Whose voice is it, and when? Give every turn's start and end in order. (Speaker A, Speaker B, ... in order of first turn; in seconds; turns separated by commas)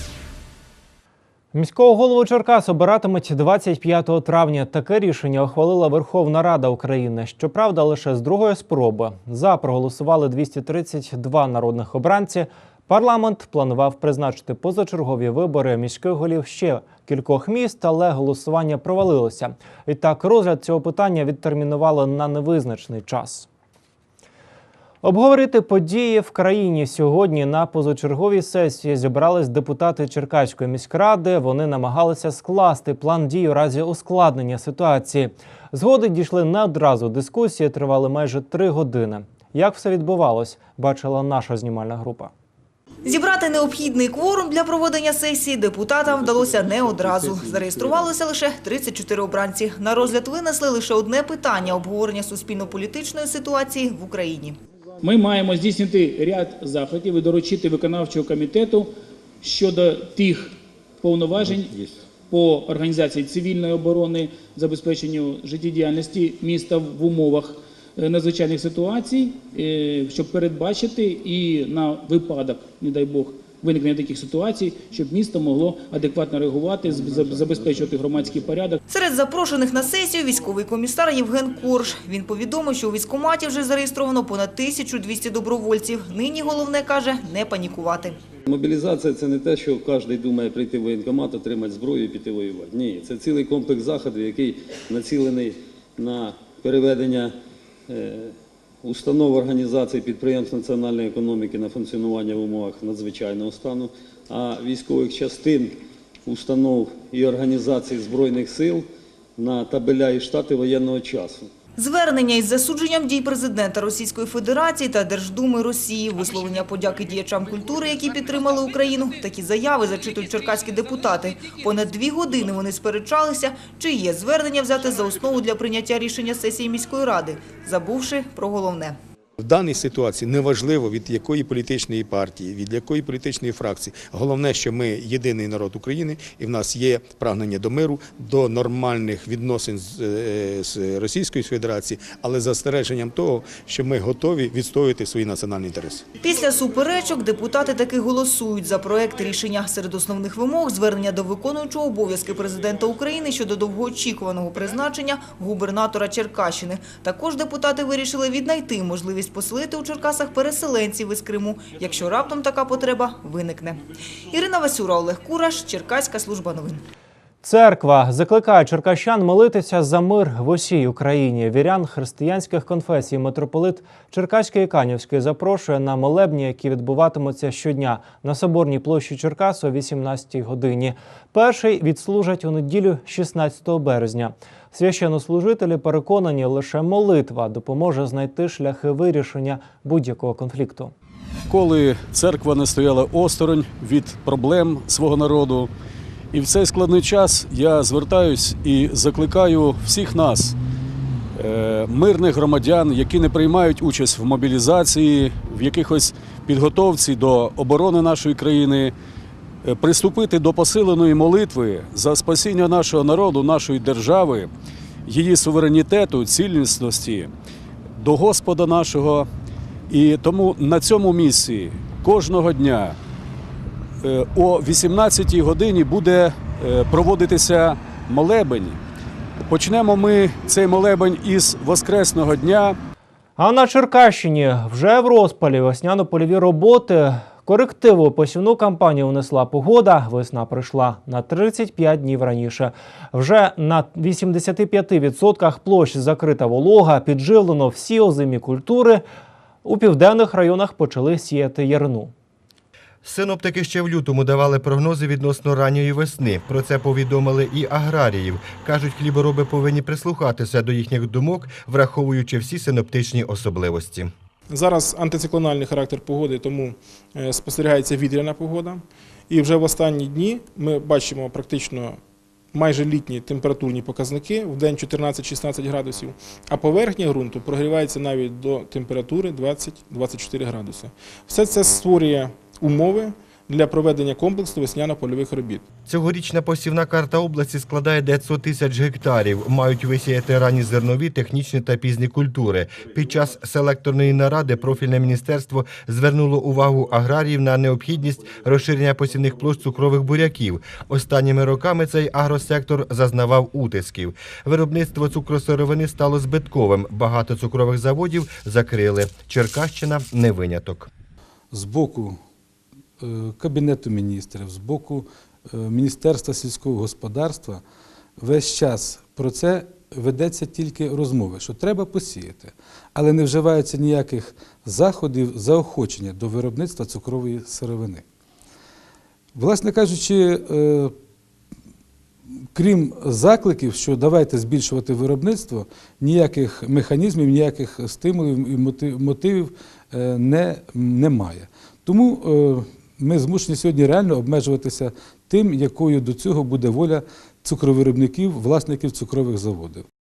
Speaker A: 1.5-23.5, Speaker A: 25.0-42.3, Speaker B: 43.0-54.6, Speaker C: 55.0-78.8, Speaker D: 61.5-61.9, Speaker B: 78.9-88.2, Speaker D: 88.5-97.3, Speaker D: 97.9-108.9, Speaker D: 109.4-111.5, Speaker B: 111.8-129.0, Speaker E: 129.4-146.0, Speaker B: 146.2-166.8, Speaker A: 167.4-190.9, Speaker F: 191.5-195.7, Speaker F: 196.3-200.6, Speaker F: 201.3-208.9, Speaker F: 209.6-214.5, Speaker F: 215.1-217.3, Speaker F: 218.0-219.3, Speaker F: 219.9-223.0, Speaker F: 224.0-228.8, Speaker F: 229.5-232.8, Speaker A: 233.4-249.0, Speaker A: 249.7-252.1, Speaker G: 253.0-264.1, Speaker H: 264.5-272.0, Speaker H: 272.5-285.6, Speaker G: 285.9-310.9, Speaker I: 311.5-312.2, Speaker I: 313.0-317.6, Speaker I: 318.2-328.1, Speaker I: 329.3-330.9, Speaker I: 332.5-349.9